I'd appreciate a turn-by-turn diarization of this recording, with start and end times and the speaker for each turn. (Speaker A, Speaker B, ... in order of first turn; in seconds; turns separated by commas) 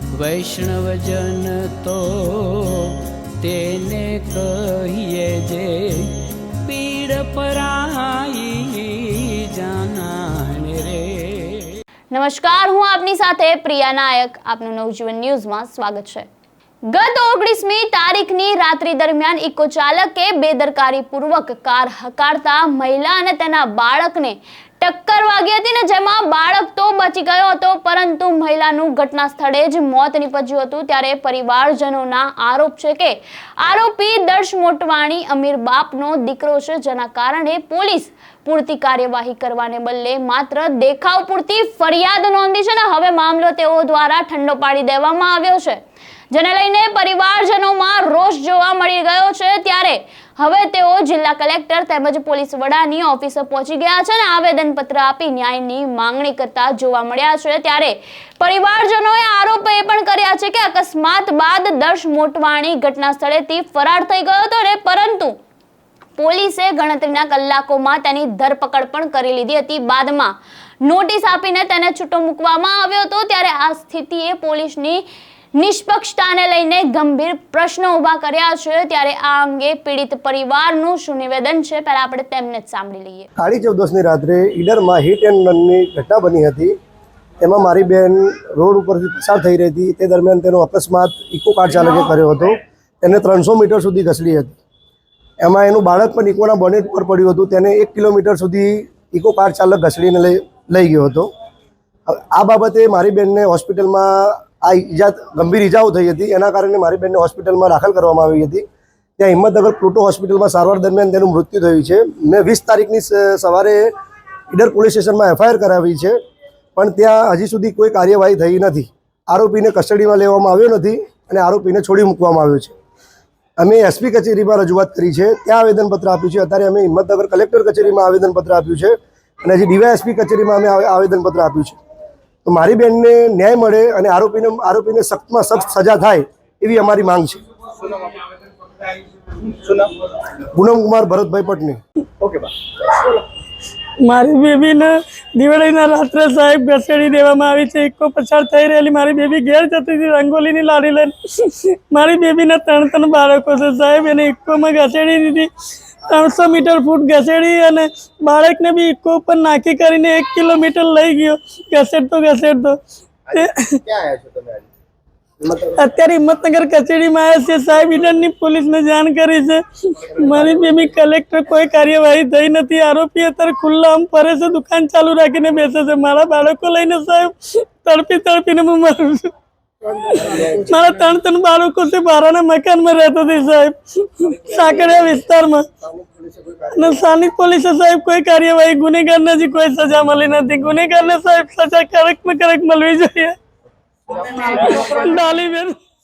Speaker A: 0.1-11.8, Speaker B: 12.1-16.3, Speaker B: 16.9-45.8, Speaker B: 46.3-65.3, Speaker B: 66.2-75.0, Speaker B: 75.5-83.3, Speaker C: 83.4-86.7, Speaker C: 87.4-94.5, Speaker C: 95.4-101.3, Speaker C: 102.0-108.6, Speaker C: 109.2-113.9, Speaker C: 114.5-116.2, Speaker C: 116.8-122.7, Speaker C: 123.6-131.8, Speaker C: 132.4-137.4, Speaker C: 139.5-142.5, Speaker D: 144.1-155.5, Speaker D: 156.1-162.8, Speaker D: 163.3-163.7, Speaker C: 163.8-164.7, Speaker C: 165.4-165.7, Speaker D: 165.9-179.3, Speaker A: 166.0-166.4, Speaker A: 167.7-168.4, Speaker A: 170.4-172.0, Speaker A: 175.7-176.0, Speaker C: 179.9-180.6, Speaker A: 180.8-182.3, Speaker D: 180.9-183.2, Speaker A: 183.0-183.8, Speaker D: 183.9-185.6, Speaker A: 184.7-185.2, Speaker C: 185.8-186.7, Speaker D: 186.7-193.3, Speaker A: 187.3-188.0, Speaker A: 189.4-191.5, Speaker A: 192.9-193.2, Speaker D: 194.5-195.7